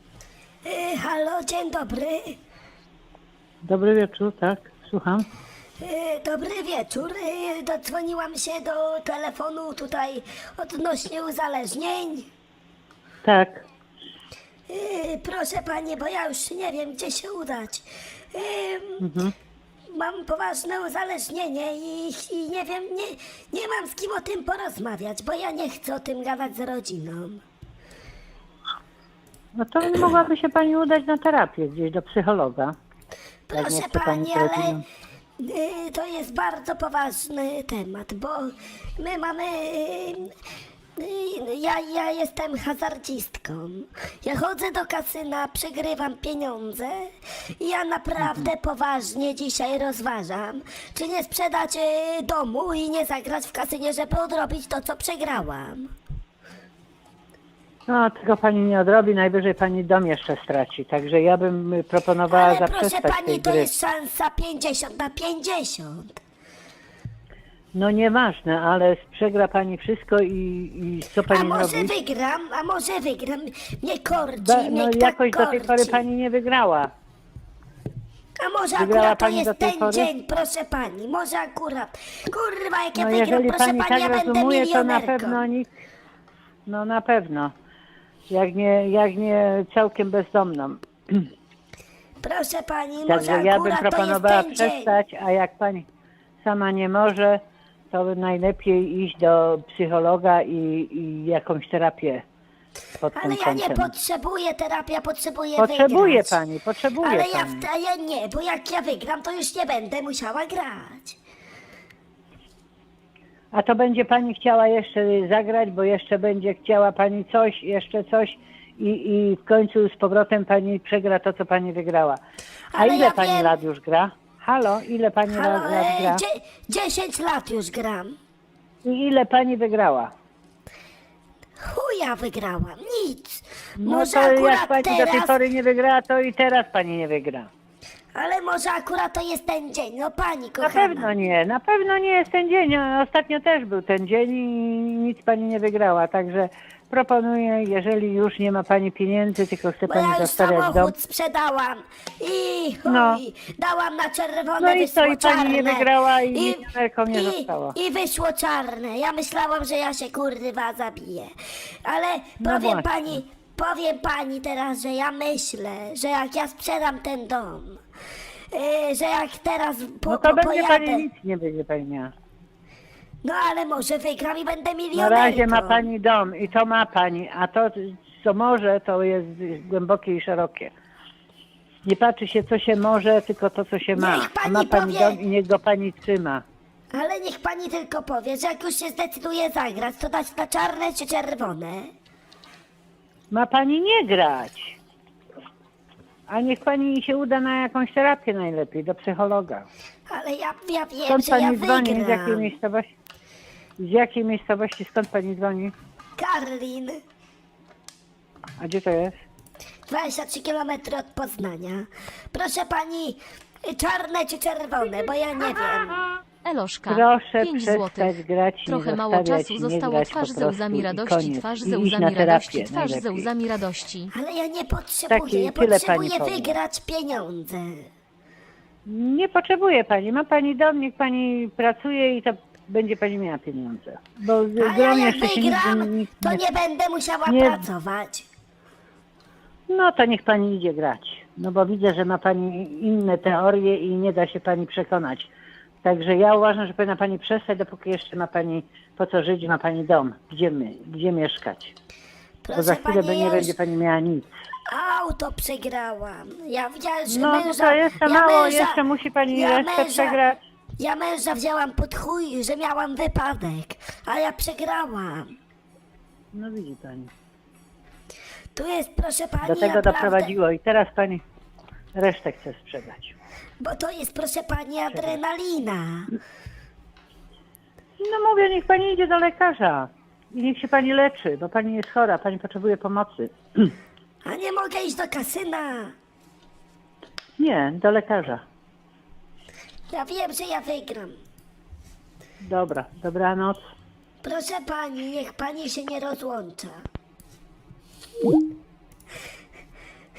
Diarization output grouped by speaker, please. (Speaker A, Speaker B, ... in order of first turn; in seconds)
Speaker A: 0.7-2.4, 5.8-12.3, 14.7-19.1, 19.9-27.4, 33.5-34.8, 35.4-40.3, 41.0-55.9, 62.3-66.2, 71.3-76.0, 78.4-85.4, 92.2-94.9, 103.1-106.4, 107.0-111.2, 122.7-123.6, 125.3-128.2, 131.6-135.3, 138.2-141.1, 149.9-167.8, 168.5-171.1, 173.2-175.9, 183.9-185.2, 186.9-191.9, 200.1-202.5, 206.2-207.0, 209.9-216.0, 224.1-227.9, 234.6-238.3, 252.4-253.6, 254.7-260.2, 260.8-265.4, 268.6-270.4, 273.6-276.1, 284.2-285.9, 289.9-291.2, 294.2-296.8
Speaker B: 3.6-5.3, 13.2-13.6, 19.0-19.3, 29.6-32.8, 33.5-34.8, 48.2-48.5, 57.9-63.7, 67.7-71.9, 74.4-76.9, 78.8-80.1, 83.0-85.7, 86.7-87.5, 88.3-91.3, 93.0-95.9, 96.4-102.2, 103.0-103.9, 105.6-107.7, 113.5-122.2, 122.8-126.2, 128.8-130.1, 133.8-137.5, 140.6-150.9, 152.9-153.2, 154.6-157.8, 162.4-163.2, 170.1-172.1, 174.9-180.7, 181.8-186.4, 193.3-194.8, 196.3-199.7, 201.1-202.9, 203.8-205.7, 208.6-209.2, 216.9-223.3, 225.1-226.6, 228.9-236.4, 237.3-237.6, 239.7-245.3, 245.8-251.7, 252.5-254.3, 257.1-260.4, 266.3-267.1, 269.4-271.2, 271.9-273.1, 274.9-275.2, 278.0-283.7, 287.4-288.4, 292.4-293.6
Speaker C: 216.4-218.2, 218.7-224.1